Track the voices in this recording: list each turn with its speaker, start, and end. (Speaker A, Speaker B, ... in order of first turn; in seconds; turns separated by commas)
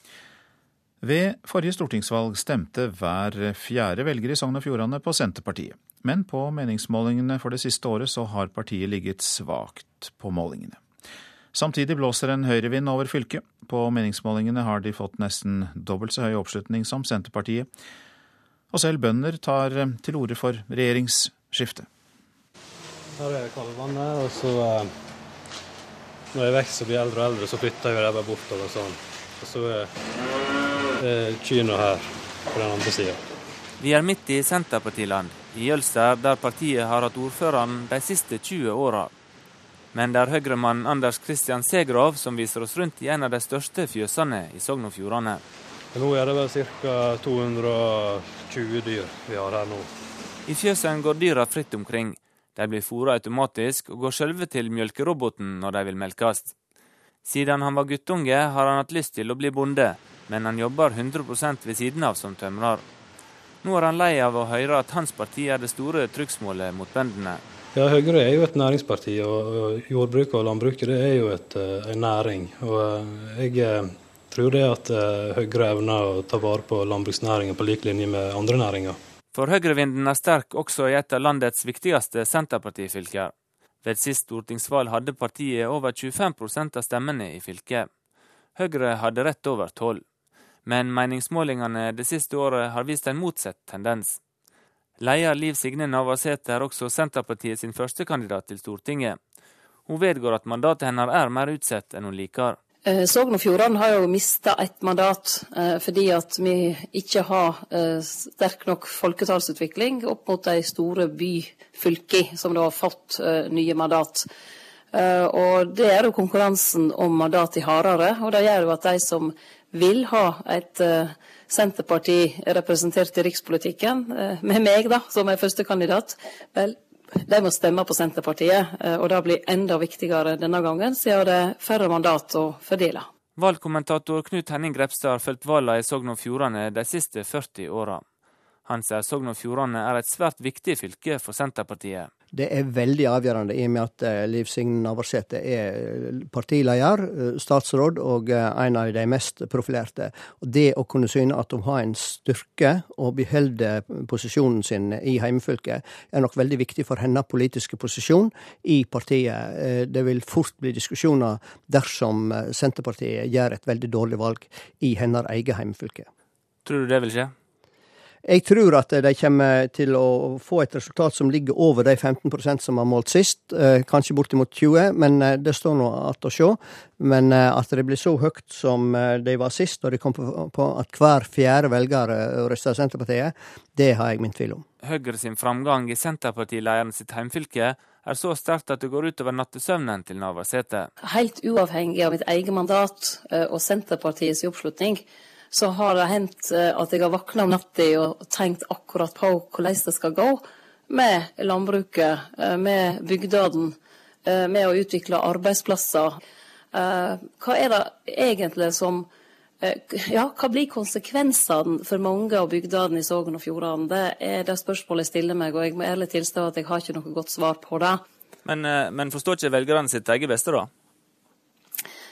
Speaker A: 1.0-10.8, Speaker A: 11.5-17.7, Speaker A: 18.7-21.9, Speaker B: 23.1-24.9, Speaker B: 26.3-29.9, Speaker B: 31.0-33.2, Speaker C: 33.8-39.1, Speaker C: 39.9-45.4, Speaker B: 45.9-49.9, Speaker C: 50.5-56.5, Speaker C: 57.2-62.8, Speaker C: 63.6-67.4, Speaker B: 67.7-79.0, Speaker C: 79.3-87.9, Speaker C: 88.5-90.0, Speaker C: 90.6-94.2, Speaker C: 95.0-99.2, Speaker C: 99.8-102.6, Speaker D: 102.8-114.2, Speaker D: 114.9-133.1, Speaker C: 133.3-138.0, Speaker C: 138.6-142.1, Speaker E: 142.3-166.1, Speaker C: 166.6-167.3, Speaker E: 168.2-184.6, Speaker C: 184.8-190.9, Speaker D: 191.0-206.2, Speaker D: 206.7-209.1, Speaker D: 209.6-218.0, Speaker C: 218.4-220.7